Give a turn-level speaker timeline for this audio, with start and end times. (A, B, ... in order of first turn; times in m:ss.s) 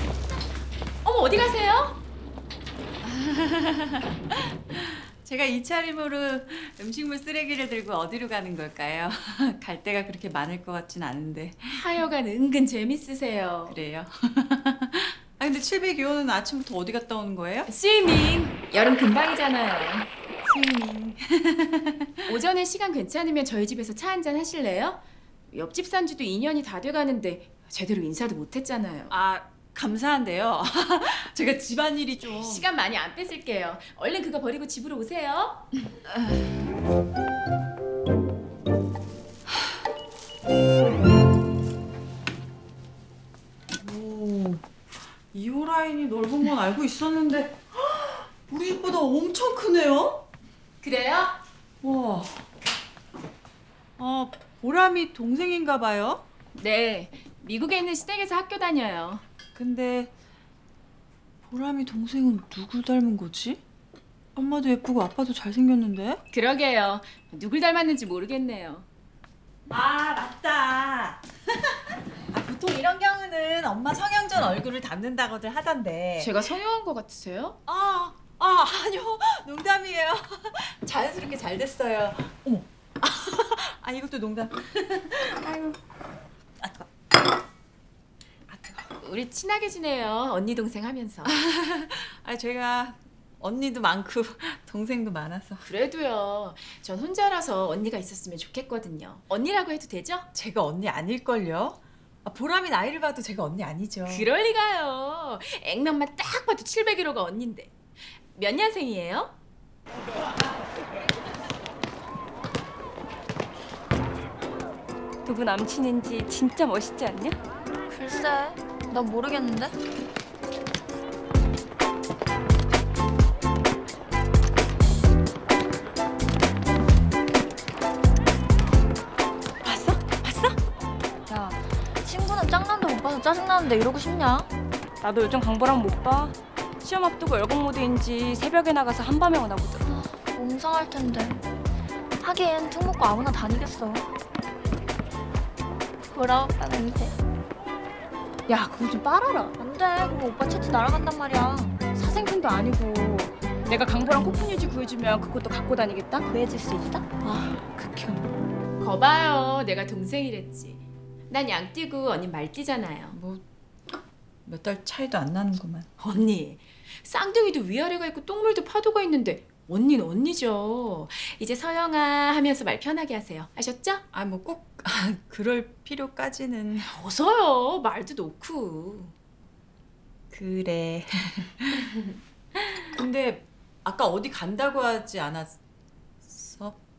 0:01.0-0:02.0 A
0:03.0-0:11.8 B
0:11.7-0:13.8 A
0:13.7-0:17.7 B
0:17.7-0:20.1 A
0:20.5-0:22.1 B
0:22.3-0:29.1 A
0:29.1-0:32.6 B
0:32.3-0:35.7 A
0:43.8-0:44.6 B
0:45.3-0:50.2 B
0:50.8-0:51.4 A
0:51.8-0:52.4 B
0:54.0-0:56.2 B
0:56.5-0:59.2 A
0:59.5-1:00.1 B
1:01.5-1:03.6 B
1:04.4-1:06.2 B
1:06.3-1:08.8 A
1:09.7-1:11.2 B
1:12.3-1:16.3 B
1:16.2-1:17.6 A
1:17.7-1:25.7 B
1:26.6-1:26.9 B
1:28.5-1:28.8 B
1:29.0-1:31.3 A
1:31.2-1:35.6 B
1:35.6-1:40.3 A
1:40.3-1:44.2 B
1:44.0-1:47.7 A
1:48.3-1:49.3 A
1:55.2-1:57.4 C
1:57.9-1:59.7 D
2:09.7-2:10.5 B
2:11.3-2:14.5 D
2:15.0-2:19.9 C
2:19.9-2:21.4 D
2:22.2-2:24.1 D
2:26.1-2:27.2 D
2:28.5-2:30.1 C
2:29.7-2:31.7 D
2:30.6-2:37.0 C
2:37.3-2:38.2 B
2:38.8-2:43.2 A
2:43.1-2:43.4 B
2:44.4-2:45.9 B
2:46.0-2:54.0 A
2:54.1-2:56.9 B
2:56.9-2:59.1 A
3:00.3-3:01.8 B
3:02.9-3:05.6 B
3:06.3-3:06.8 B